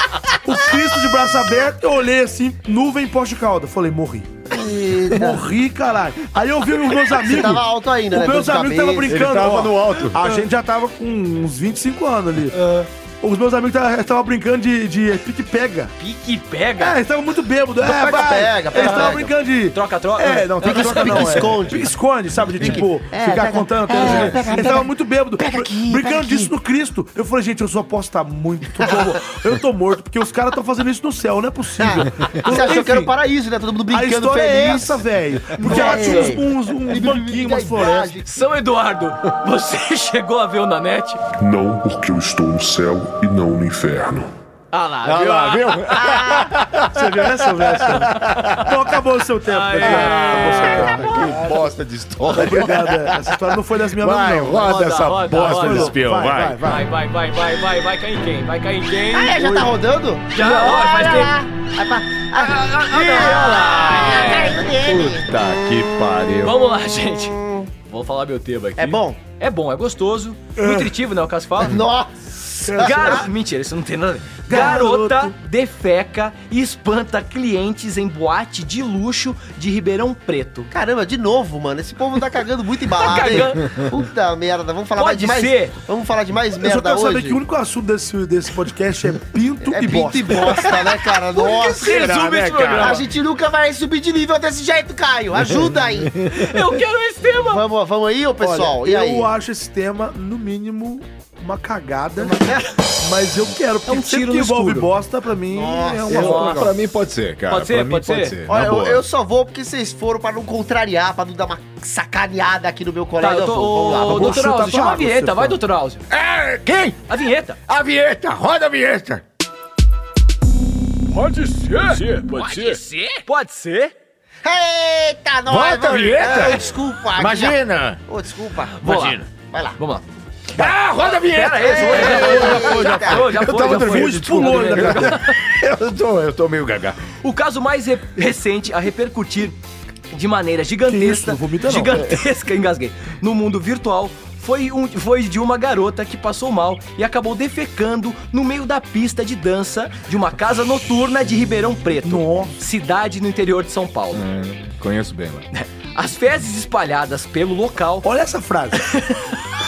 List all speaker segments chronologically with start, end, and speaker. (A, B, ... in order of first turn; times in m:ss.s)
0:00.4-0:04.3 A
0:04.5-0:05.4 B
0:05.1-0:12.6 A
0:07.0-0:09.2 B
0:09.1-0:10.2 C
0:12.5-0:12.9 D
0:13.2-0:15.9 A
0:16.0-0:17.0 D
0:16.8-0:33.1 A
0:17.8-0:19.3 B
0:17.9-0:21.6 D
0:20.6-0:22.0 B
0:22.6-0:26.5 B
0:24.0-0:24.3 C
0:28.8-0:29.1 B
0:31.8-0:35.0 B
0:33.9-0:38.2 A
0:35.6-0:36.4 D
0:35.6-0:38.3 B
0:38.2-0:41.2 D
0:41.4-0:44.3 E
0:44.7-0:46.2 D
0:45.0-0:48.8 C
0:46.1-0:46.5 B
0:46.9-0:51.6 A
0:48.3-0:48.6 D
0:49.4-0:51.1 D
0:49.8-0:56.7 C
0:52.3-0:56.8 A
0:54.5-0:56.0 D
0:56.6-0:59.6 D
0:59.1-1:06.0 B
1:00.3-1:01.4 D
1:02.3-1:04.6 D
1:02.9-1:06.6 C
1:06.4-1:11.8 D
1:06.9-1:07.7 B
1:08.8-1:09.2 B
1:10.6-1:10.9 A
1:11.6-1:13.2 B
1:12.6-1:13.3 A
1:12.8-1:20.7 D
1:14.4-1:15.3 A
1:20.7-1:27.4 B
1:23.0-1:23.8 D
1:24.9-1:25.7 D
1:26.6-1:30.9 A
1:29.6-1:32.1 B
1:31.3-1:33.0 D
1:31.9-1:33.0 A
1:31.9-1:33.0 C
1:32.7-1:36.2 B
1:36.2-1:36.5 C
1:36.3-1:37.6 D
1:37.3-1:39.3 B
1:38.4-1:42.5 A
1:43.0-1:46.6 A
1:43.9-1:44.9 D
1:45.5-1:46.4 B
1:46.1-1:49.0 C
1:46.1-1:46.8 D
1:47.5-1:48.4 D
1:48.5-1:54.6 B
1:53.2-1:56.0 D
1:54.0-1:55.6 A
1:56.1-1:57.0 C
1:57.1-1:57.6 D
1:57.7-1:59.2 C
2:01.7-2:03.9 D
2:02.4-2:02.8 C
2:04.4-2:09.8 B
2:05.5-2:08.0 C
2:08.8-2:09.2 D
2:08.8-2:09.3 C
2:09.8-2:10.0 D
2:10.5-2:17.0 C
2:11.2-2:15.3 D
2:11.6-2:13.4 B
2:12.1-2:15.2 A
2:17.2-2:19.5 D
2:20.1-2:34.2 D
2:20.8-2:22.0 A
2:32.0-2:32.5 A
2:34.1-2:35.5 C
2:35.5-2:38.1 D
2:38.0-2:38.9 A
2:38.7-2:39.4 D